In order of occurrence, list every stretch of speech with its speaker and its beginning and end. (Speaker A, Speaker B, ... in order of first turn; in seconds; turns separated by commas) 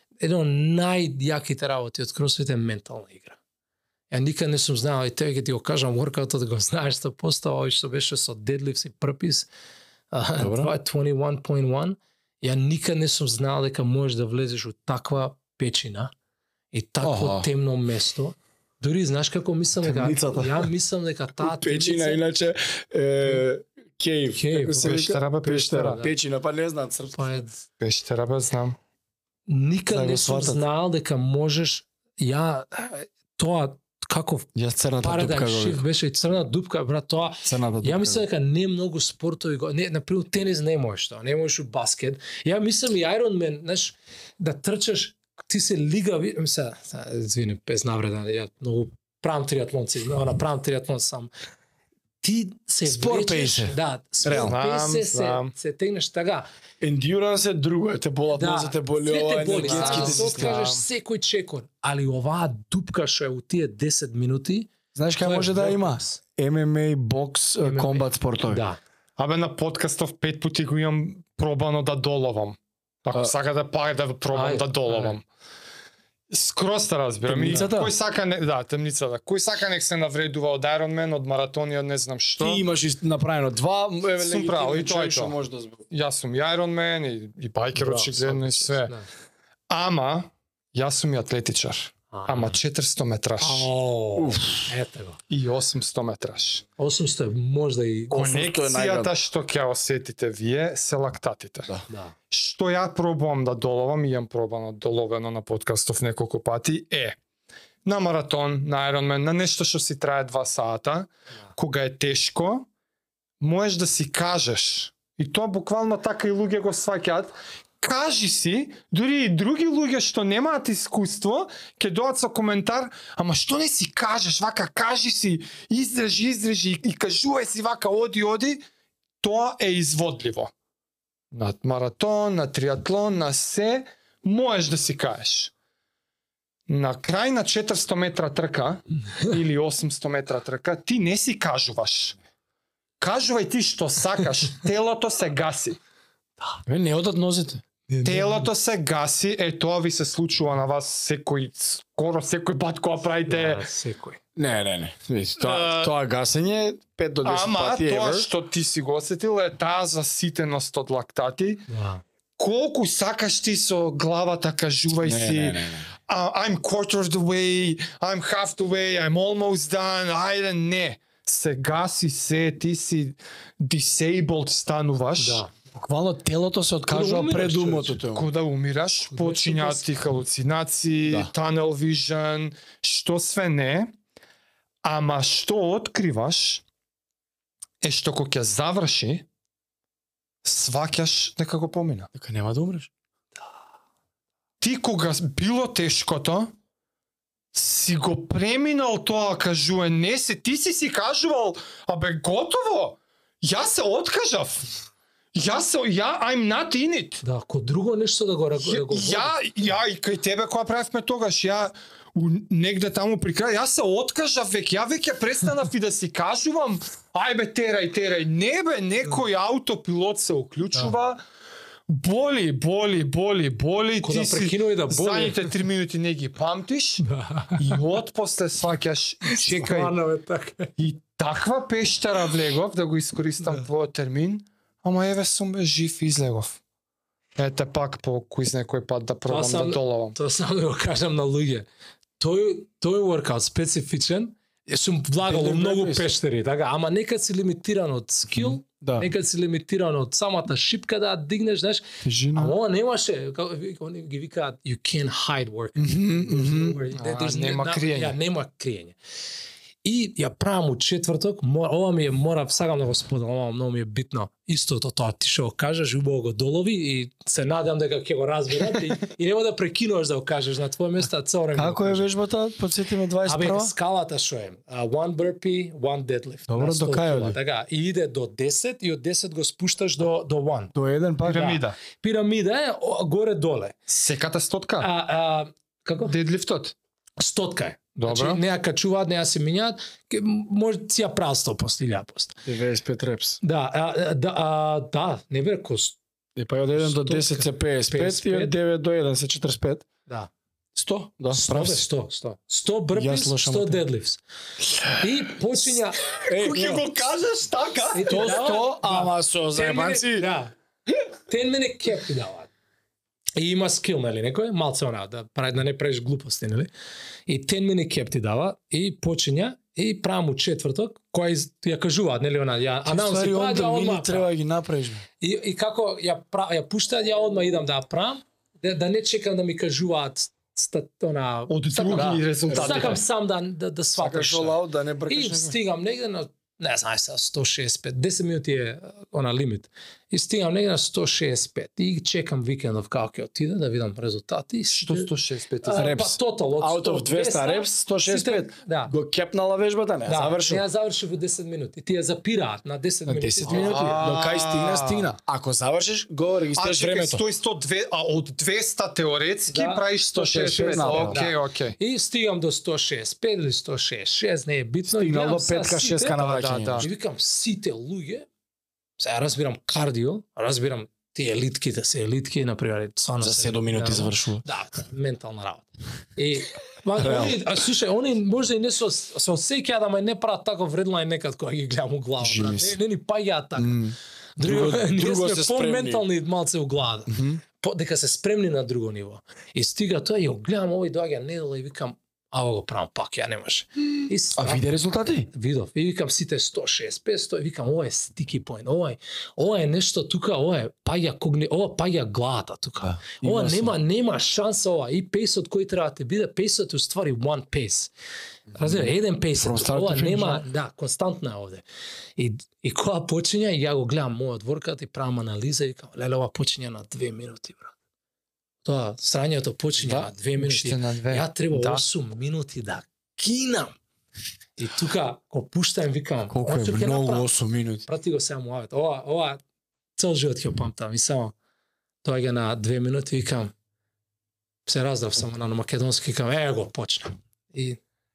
Speaker A: 0.2-3.4, Speaker A: 4.1-9.5, Speaker A: 10.1-16.1, Speaker B: 10.4-10.7, Speaker A: 16.7-22.2, Speaker B: 17.0-17.5, Speaker B: 19.8-20.7, Speaker B: 21.4-27.4, Speaker A: 24.3-25.0, Speaker C: 24.8-26.0, Speaker A: 25.9-26.1, Speaker A: 27.1-27.6, Speaker C: 27.8-28.8, Speaker A: 29.5-34.5, Speaker B: 29.9-30.6, Speaker B: 34.5-35.8, Speaker A: 35.0-51.3, Speaker B: 37.4-38.2, Speaker A: 52.2-56.5, Speaker B: 52.8-54.5, Speaker C: 54.4-55.5, Speaker B: 56.8-60.6, Speaker A: 58.3-66.2, Speaker C: 59.6-60.8, Speaker B: 64.9-68.6, Speaker A: 67.6-68.8, Speaker C: 69.2-75.2, Speaker A: 74.3-75.2, Speaker C: 76.3-82.6, Speaker B: 77.2-77.9, Speaker B: 82.4-85.8, Speaker C: 84.2-85.3, Speaker C: 85.9-88.9, Speaker A: 87.7-89.1, Speaker C: 89.7-93.7, Speaker A: 92.1-92.6, Speaker A: 93.4-95.2, Speaker B: 94.2-94.7, Speaker C: 95.3-96.6, Speaker A: 96.8-98.3, Speaker B: 98.1-99.1, Speaker C: 98.1-101.7, Speaker A: 101.9-102.1, Speaker C: 102.3-107.2, Speaker C: 107.8-112.7, Speaker C: 113.4-128.6, Speaker C: 129.2-130.5, Speaker C: 131.3-135.5, Speaker C: 136.7-142.2, Speaker C: 143.0-145.8, Speaker B: 146.7-147.6, Speaker A: 147.9-148.5, Speaker C: 148.0-153.7, Speaker A: 153.3-154.2, Speaker B: 154.3-158.3, Speaker C: 155.4-155.9, Speaker C: 157.2-161.7, Speaker A: 161.7-162.0, Speaker C: 162.4-175.4, Speaker B: 165.0-165.9, Speaker A: 175.2-175.5, Speaker B: 175.7-178.3, Speaker A: 176.9-178.0, Speaker C: 178.1-183.9, Speaker A: 179.1-179.9, Speaker C: 184.8-186.6, Speaker C: 187.8-189.2, Speaker C: 190.4-192.1, Speaker B: 192.1-192.9, Speaker C: 194.6-196.5, Speaker C: 197.5-204.7, Speaker C: 205.3-207.2, Speaker A: 207.2-209.4, Speaker C: 208.6-221.2, Speaker C: 221.9-227.0, Speaker A: 224.0-225.5, Speaker A: 227.0-227.8, Speaker C: 227.6-229.9, Speaker A: 229.2-230.7, Speaker C: 230.8-236.6, Speaker C: 237.4-240.2, Speaker A: 239.3-241.7, Speaker A: 242.2-259.0, Speaker B: 245.2-246.1, Speaker B: 248.3-249.1, Speaker B: 252.0-252.6, Speaker B: 255.8-256.8, Speaker C: 256.9-258.2, Speaker A: 259.8-272.1, Speaker B: 271.5-273.7, Speaker A: 273.2-280.7, Speaker B: 276.5-277.4, Speaker B: 280.7-281.6, Speaker C: 281.2-281.8, Speaker A: 281.3-283.8, Speaker C: 283.9-284.9, Speaker A: 284.8-286.1, Speaker C: 286.1-286.7, Speaker A: 287.2-292.4, Speaker C: 288.0-288.4, Speaker B: 292.4-293.4, Speaker A: 293.4-296.0, Speaker B: 296.4-299.9, Speaker A: 296.7-298.5, Speaker B: 300.8-301.9, Speaker A: 301.3-304.2, Speaker B: 302.9-303.8, Speaker A: 305.0-306.1, Speaker C: 306.1-308.6, Speaker B: 306.3-306.9, Speaker A: 307.9-310.5, Speaker B: 308.0-310.3, Speaker A: 311.3-312.5, Speaker A: 313.4-316.7, Speaker A: 317.3-324.3, Speaker B: 322.8-325.0, Speaker A: 325.2-345.1, Speaker C: 331.5-333.0, Speaker B: 331.9-333.0, Speaker B: 334.0-335.6, Speaker C: 344.7-345.9, Speaker A: 345.6-348.9, Speaker B: 345.8-350.6, Speaker A: 350.1-353.9, Speaker B: 353.0-357.2, Speaker C: 353.5-355.1, Speaker C: 356.6-361.8, Speaker A: 359.5-366.2, Speaker B: 360.1-361.2, Speaker B: 364.8-366.9, Speaker C: 366.1-366.9, Speaker A: 366.8-368.3, Speaker A: 369.0-383.8, Speaker B: 373.2-374.4, Speaker B: 377.0-377.4, Speaker B: 382.2-382.8, Speaker B: 383.6-386.0, Speaker A: 384.4-394.7, Speaker B: 387.1-387.4, Speaker B: 394.3-395.3, Speaker A: 395.3-407.9, Speaker B: 402.8-403.8, Speaker A: 408.5-411.6, Speaker B: 408.6-410.4, Speaker A: 412.2-417.7, Speaker A: 418.6-423.8, Speaker C: 419.8-421.8, Speaker A: 424.6-427.3, Speaker B: 426.3-427.8, Speaker A: 427.8-429.4, Speaker A: 430.0-431.3, Speaker A: 432.0-433.5, Speaker A: 434.6-437.8